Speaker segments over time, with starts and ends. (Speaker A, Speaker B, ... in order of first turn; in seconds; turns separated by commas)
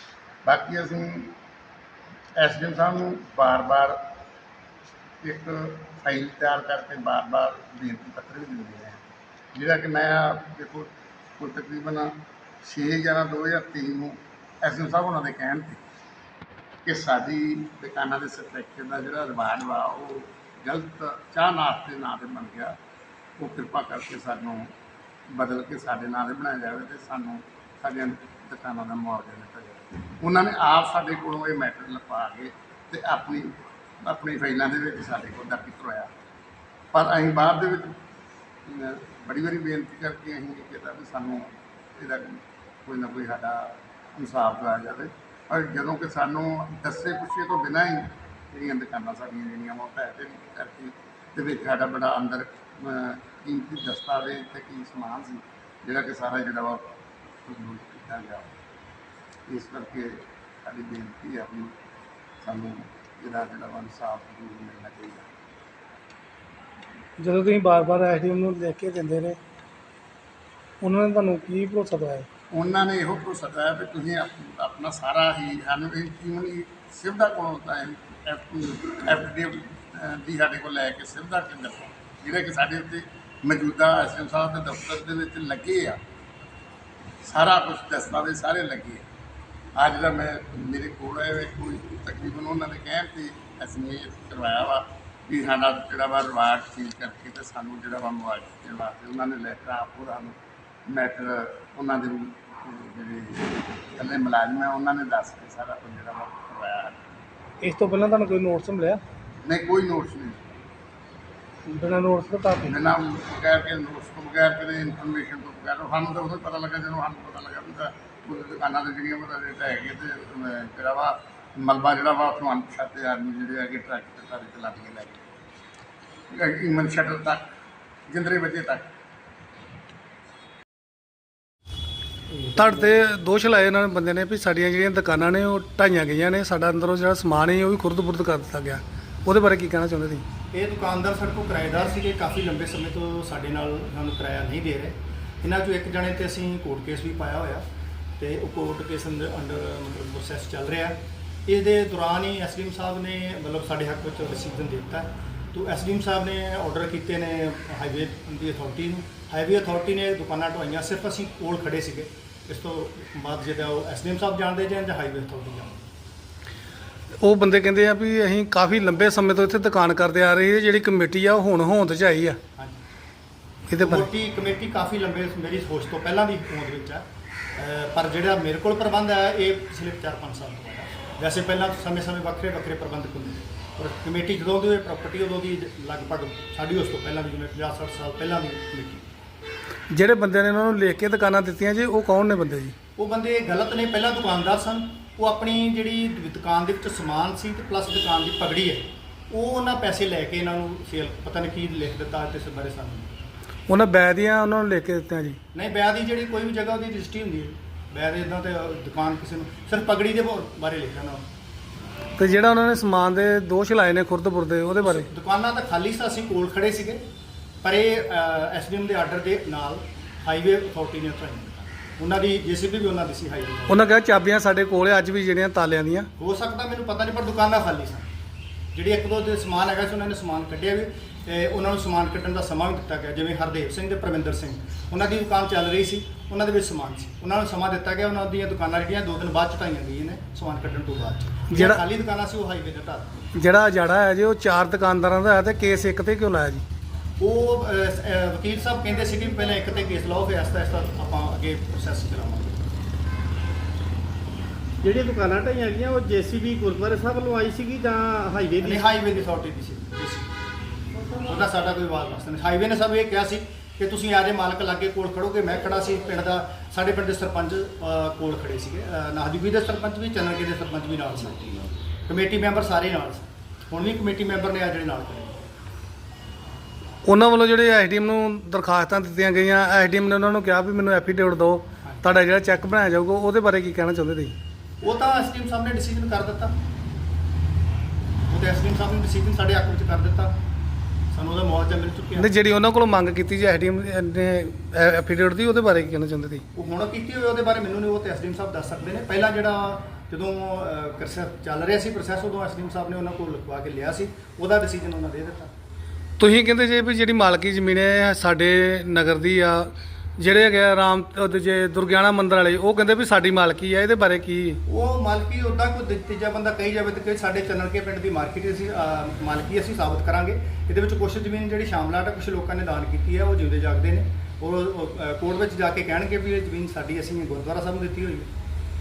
Speaker A: 0.4-1.4, Speaker A: 2.4-3.9, Speaker A: 5.2-12.1, Speaker A: 12.6-15.8, Speaker A: 16.8-22.8, Speaker A: 23.4-24.7, Speaker A: 25.3-36.1, Speaker A: 36.9-37.9, Speaker A: 38.6-58.5, Speaker A: 59.5-61.7, Speaker A: 62.4-65.3, Speaker B: 67.2-69.4, Speaker B: 70.8-72.3, Speaker A: 72.5-86.0, Speaker A: 87.2-89.0, Speaker A: 89.8-100.3, Speaker A: 100.9-107.0, Speaker B: 107.6-109.0, Speaker A: 109.4-110.6, Speaker B: 111.7-112.8, Speaker A: 112.7-125.2, Speaker A: 126.3-127.5, Speaker A: 128.1-128.9, Speaker B: 132.5-140.2, Speaker C: 140.5-147.6, Speaker C: 148.2-165.9, Speaker B: 167.2-172.4, Speaker B: 173.7-174.1, Speaker C: 173.8-177.0, Speaker C: 177.6-189.1, Speaker B: 189.9-192.7, Speaker C: 193.0-203.2, Speaker B: 203.7-205.4, Speaker C: 205.5-211.2, Speaker B: 212.2-215.1, Speaker C: 214.8-217.0, Speaker C: 217.6-223.8, Speaker B: 223.7-226.1, Speaker C: 226.2-228.1, Speaker C: 228.7-243.2, Speaker B: 241.5-241.8, Speaker B: 243.3-246.6, Speaker C: 247.2-252.6, Speaker D: 254.8-258.8, Speaker C: 258.6-260.3, Speaker C: 261.2-275.4, Speaker B: 277.0-284.3, Speaker C: 284.8-286.5, Speaker C: 288.3-290.4, Speaker C: 291.1-292.3, Speaker B: 292.2-296.4, Speaker C: 296.5-305.5, Speaker B: 306.2-314.6, Speaker C: 314.6-328.3